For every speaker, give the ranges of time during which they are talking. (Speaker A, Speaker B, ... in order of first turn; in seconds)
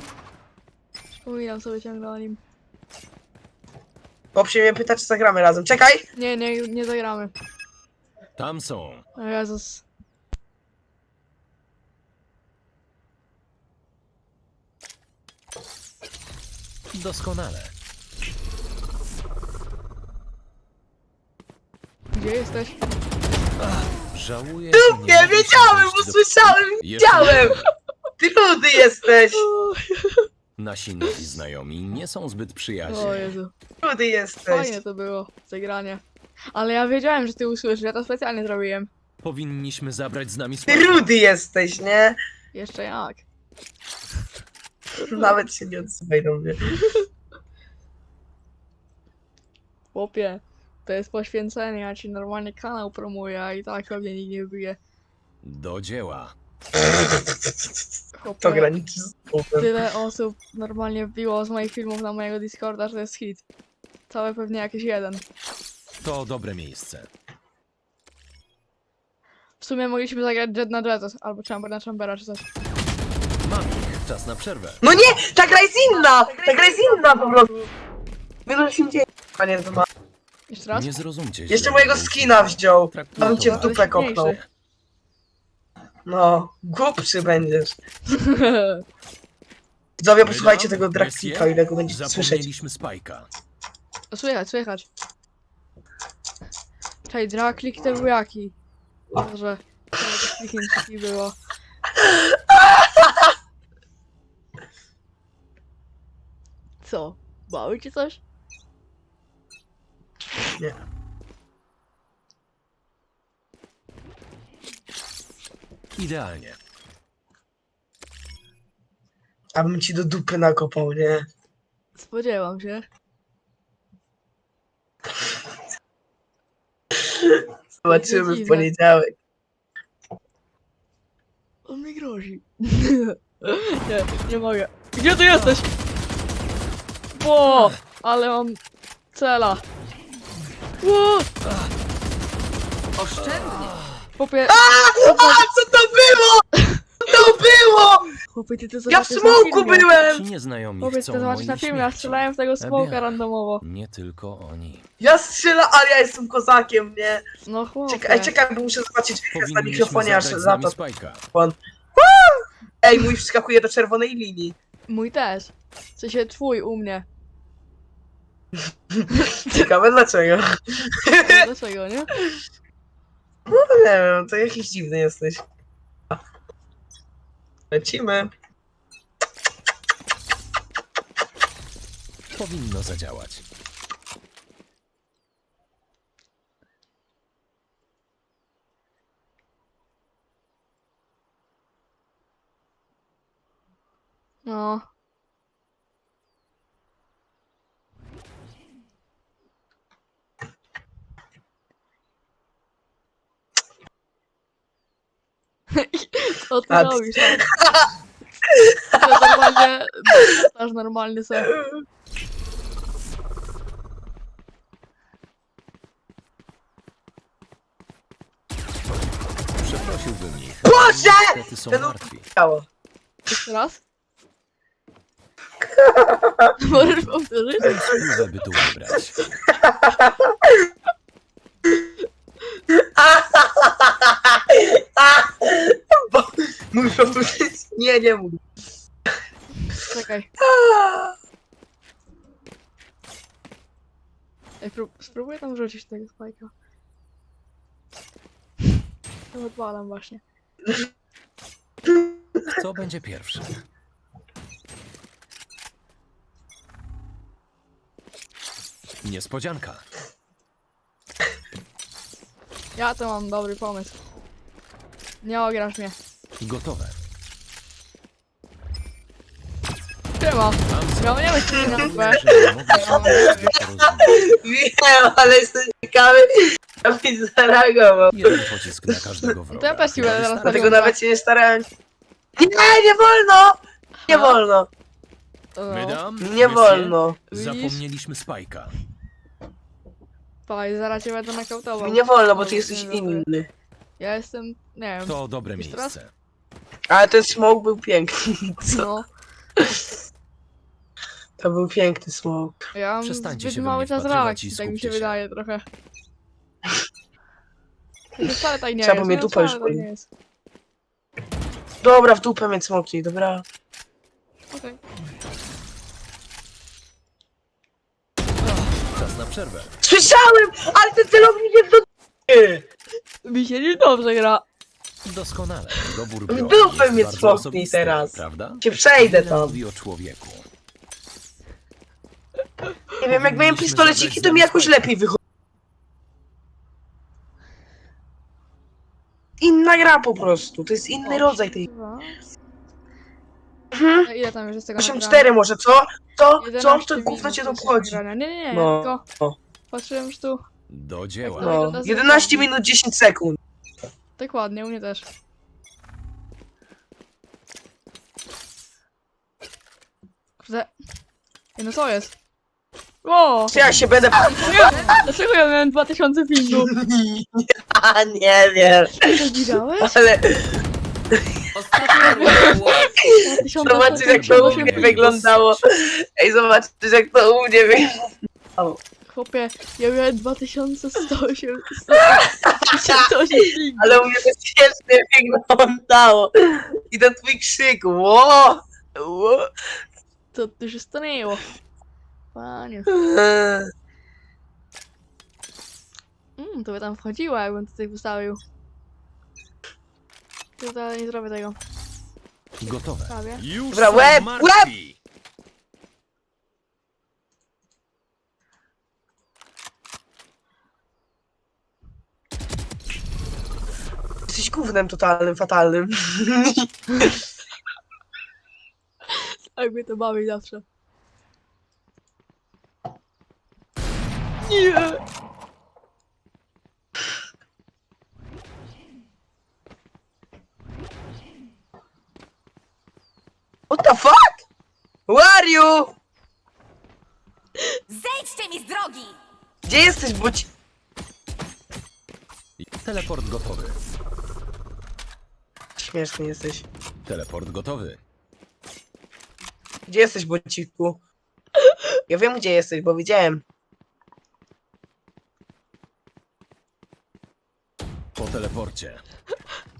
Speaker A: 1.2-2.4, 6.2-7.3, 9.2-9.8, 22.1-22.8, 27.2-27.5, 29.3-30.3, 32.9-33.5, 34.5-36.0, 36.5-38.9, 42.5-43.2, 49.9-54.8, 58.2-58.7, 59.5-63.4, 64.1-65.2, 69.6-72.5, 80.5-80.9, 83.2-84.3, 88.1-88.8, 94.1-94.9, 97.1-98.5, 99.1-101.3, 106.8-108.2, 122.0-122.8, 127.8-128.7, 131.7-135.7, 137.1-138.6, 139.1-139.6, 140.8-141.3, 144.2-145.4, 146.6-146.8, 148.2-149.9, 150.8-153.6, 157.4-158.3, 164.9-167.1, 169.1-169.7, 171.2-172.1, 194.4-194.8, 205.7-207.4, 208.9-211.5, 223.3-223.8, 226.6-227.8, 239.6-240.3, 244.6-246.5, 249.3-250.2, 262.7-263.9, 265.2-265.9, 270.2-273.4, 279.5-280.9, 284.0-284.4, 285.6-286.0, 287.3-287.8, 290.4-293.2, 294.0-295.9, 298.6-299.1, 302.7-305.6, 308.2-310.1, 314.5-314.8, 323.2-324.4, 341.0-342.1, 344.0-345.3, 346.4-349.0, 349.7-350.4, 351.2-352.5, 354.2-355.1, 360.4-360.7, 361.6-362.1, 363.0-363.5, 364.3-366.7, 369.0-370.0, 371.8-375.1, 379.1-384.1, 389.0-389.5, 390.3-391.5, 392.3-392.9, 396.4-398.4, 400.6-401.6, 403.1-403.4, 419.1-420.6, 424.4-425.0, 451.6-451.9
Speaker B: 4.3-6.0, 24.7-27.6, 28.2-29.4, 33.8-34.8, 40.7-42.2, 45.0-46.7, 58.4-59.7, 74.8-77.5, 78.5-79.9, 81.5-84.3, 86.0-87.8, 90.0-92.5, 102.0-103.3, 119.5-121.2, 127.1-129.1, 144.5-146.4, 147.0-148.1, 148.9-150.2, 155.0-157.2, 157.9-160.8, 161.3-164.5, 169.0-171.5, 173.5-175.4, 177.7-178.3, 206.7-207.9, 208.5-209.5, 211.4-211.7, 220.6-222.6, 225.6-226.6, 229.5-230.6, 232.7-238.4, 240.4-241.1, 274.0-278.3, 280.4-281.7, 282.4-283.6, 284.1-284.7, 286.2-287.2, 291.8-293.5, 296.9-298.9, 301.4-302.6, 308.8-309.9, 311.8-313.4, 319.8-322.6, 326.3-329.6, 333.0-335.2, 339.4-341.7, 343.7-344.1, 344.8-348.0, 348.5-349.4, 351.4-353.4, 363.5-364.9, 366.6-369.1, 369.8-370.6, 372.9-378.8, 382.1-383.1, 383.8-388.6, 392.9-393.7, 403.7-404.7, 414.3-417.2, 433.7-434.4, 435.1-435.9, 439.6-440.5, 445.8-446.6, 449.9-451.0, 452.1-453.4
Speaker C: 8.4-9.0, 16.9-17.7, 23.6-27.7, 30.6-33.3, 39.2-41.0, 55.4-56.3, 66.0-67.1, 73.4-74.8, 80.7-84.5, 90.2-93.3, 116.0-116.6, 141.4-141.7, 143.2-144.1, 149.6-154.8, 159.3-161.2, 182.3-183.4, 219.6-222.2, 227.6-229.2, 236.8-237.4, 252.5-253.5, 259.0-259.8, 266.4-267.0, 270.7-274.4, 278.1-280.8, 285.7-288.8, 295.0-296.1, 303.0-305.2, 318.4-319.7, 325.0-330.4, 333.0-334.9, 350.7-351.6, 363.5-364.1, 373.6-375.6, 402.6-405.0, 442.6-443.8, 447.1-448.0, 458.1-459.0
Speaker D: 142.9-143.8, 364.6-365.0, 371.5-373.0, 437.9-439.1